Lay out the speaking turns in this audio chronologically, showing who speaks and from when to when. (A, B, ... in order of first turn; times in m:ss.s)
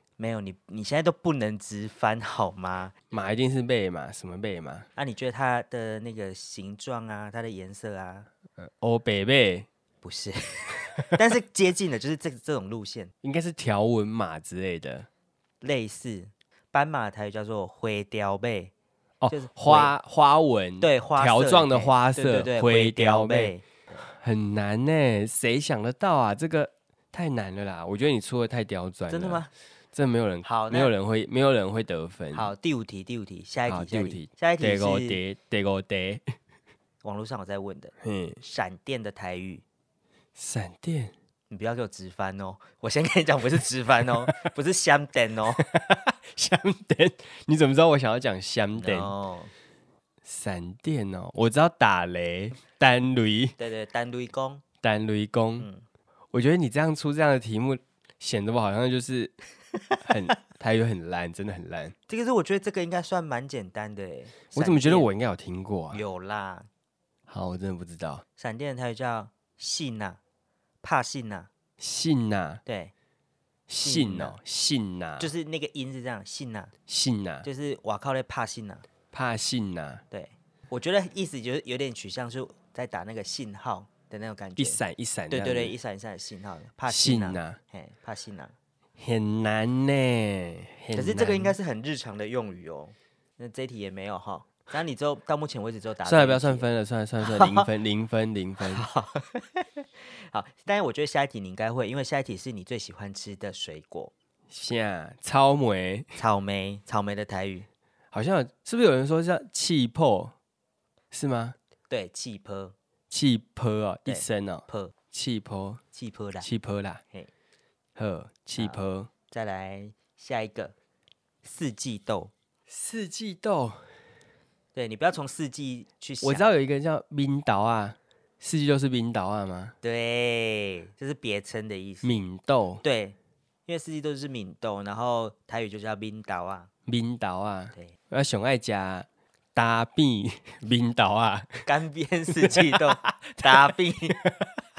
0:00.2-0:02.9 A
0:03.1-0:04.9 B
0:05.0-0:08.3 A
0:08.6-0:09.7 B
0:10.0-0:13.1 A
0:13.2-0:15.1 B
0:15.6-0:18.7 A
0:19.2-0:32.5 B
0:19.3-0:19.9 A
0:20.8-0:24.0 A
0:29.1-0:29.5 A
0:30.4-0:30.9 A
0:32.3-0:35.2 A
0:33.7-0:36.2 B
0:37.0-0:39.6 A
0:38.0-0:38.4 B
0:40.4-0:41.1 B
0:41.5-0:45.6 A
0:45.6-0:49.1 B
0:48.8-0:49.5 A
0:50.2-0:53.6 B
0:53.6-0:54.6 A
0:54.8-0:55.7 B
0:55.6-0:55.8 A
0:56.3-0:59.4 B
1:00.0-1:02.0 B
1:02.1-1:05.1 A
1:04.5-1:06.0 B
1:05.9-1:06.7 A
1:07.3-1:08.2 B
1:08.4-1:10.2 A
1:10.8-1:11.5 A
1:11.8-1:12.6 B
1:12.7-1:12.9 A
1:13.7-1:15.3 B
1:13.8-1:14.4 A
1:15.2-1:16.7 A
1:16.9-1:17.5 B
1:17.4-1:18.9 A
1:19.1-1:20.0 B
1:20.1-1:28.5 A
1:24.6-1:25.7 B
1:26.9-1:27.6 B
1:29.0-1:31.6 B
1:31.0-1:36.6 A
1:36.0-1:38.8 B
1:37.2-1:37.7 A
1:38.6-1:44.1 A
1:44.5-1:46.2 B
1:46.2-1:47.7 A
1:48.1-1:50.3 B
1:51.1-1:51.6 B
1:51.9-1:52.8 A
1:53.1-1:55.8 B
1:54.1-1:54.9 A
1:55.9-1:56.5 A
1:56.4-1:57.0 B
1:58.0-1:59.1 B
1:58.6-2:00.7 A
2:01.4-2:02.3 A
2:02.7-2:03.8 B
2:04.8-2:06.5 A
2:06.2-2:09.8 B
2:09.8-2:12.2 A
2:12.0-2:12.8 B
2:12.8-2:13.2 A
2:13.7-2:16.7 A
2:16.9-2:21.7 B
2:21.7-2:24.2 A
2:22.3-2:24.5 B